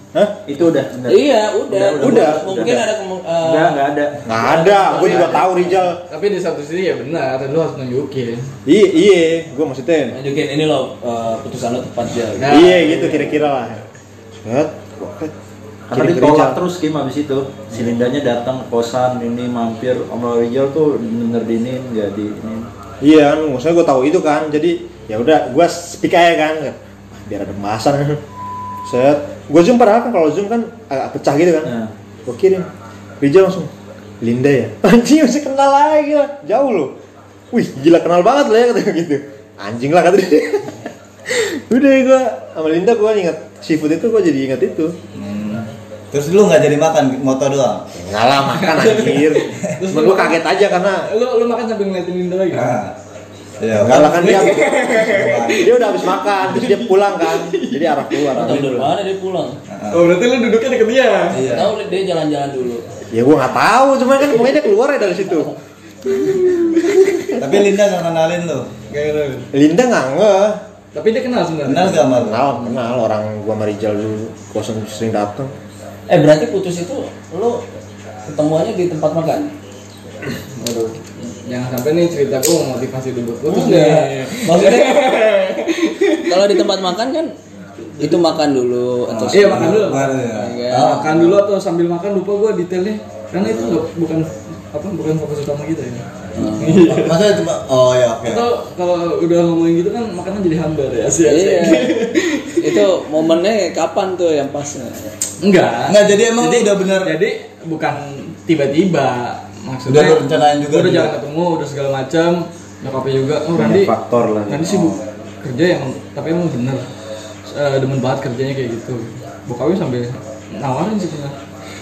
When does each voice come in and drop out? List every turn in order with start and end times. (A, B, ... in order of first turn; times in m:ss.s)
0:00.5-0:05.4 A
0:01.1-0:03.8 B
0:02.0-0:02.6 C
0:04.2-0:06.0 C
0:04.7-0:05.4 D
0:04.8-0:05.4 B
0:06.1-0:08.5 D
0:08.7-0:10.2 C
0:10.1-0:13.4 B
0:12.4-0:12.9 D
0:12.5-0:13.8 C
0:14.4-0:15.3 C
0:15.9-0:22.7 A
0:15.9-0:16.6 C
0:23.0-0:28.2 C
0:28.8-0:31.8 C
0:31.6-0:31.9 A
0:32.2-0:32.7 C
0:33.2-0:36.9 C
0:37.5-0:45.0 C
0:45.2-0:47.9 E
0:47.9-0:51.1 C
0:48.5-0:52.8 D
0:52.5-0:53.0 E
0:53.6-0:55.7 E
0:53.8-0:54.6 C
0:54.0-0:58.3 D
0:55.6-0:58.8 C
0:58.3-0:59.6 B
0:58.5-0:58.9 E
0:59.7-1:00.0 E
0:59.9-1:01.5 D
1:01.3-1:01.7 E
1:01.5-1:02.8 B
1:03.1-1:05.5 C
1:06.0-1:07.4 D
1:07.4-1:08.7 E
1:08.9-1:09.5 D
1:09.5-1:10.6 C
1:10.9-1:12.7 D
1:11.6-1:12.4 E
1:12.1-1:15.5 C
1:16.1-1:17.6 B
1:18.3-1:19.5 B
1:20.6-1:26.7 D
1:23.5-1:25.0 B
1:26.3-1:27.3 B
1:28.0-1:29.8 B
1:29.1-1:31.4 E
1:29.3-1:37.2 D
1:30.3-1:31.2 B
1:33.4-1:33.8 B
1:36.4-1:36.9 B
1:36.9-1:38.5 E
1:38.2-1:42.9 D
1:41.2-1:41.9 B
1:42.6-1:45.1 B
1:45.4-1:53.9 D
1:45.9-1:47.1 E
1:49.9-1:51.1 E
1:53.5-1:55.0 A
1:54.5-1:56.8 D
1:57.5-2:01.4 D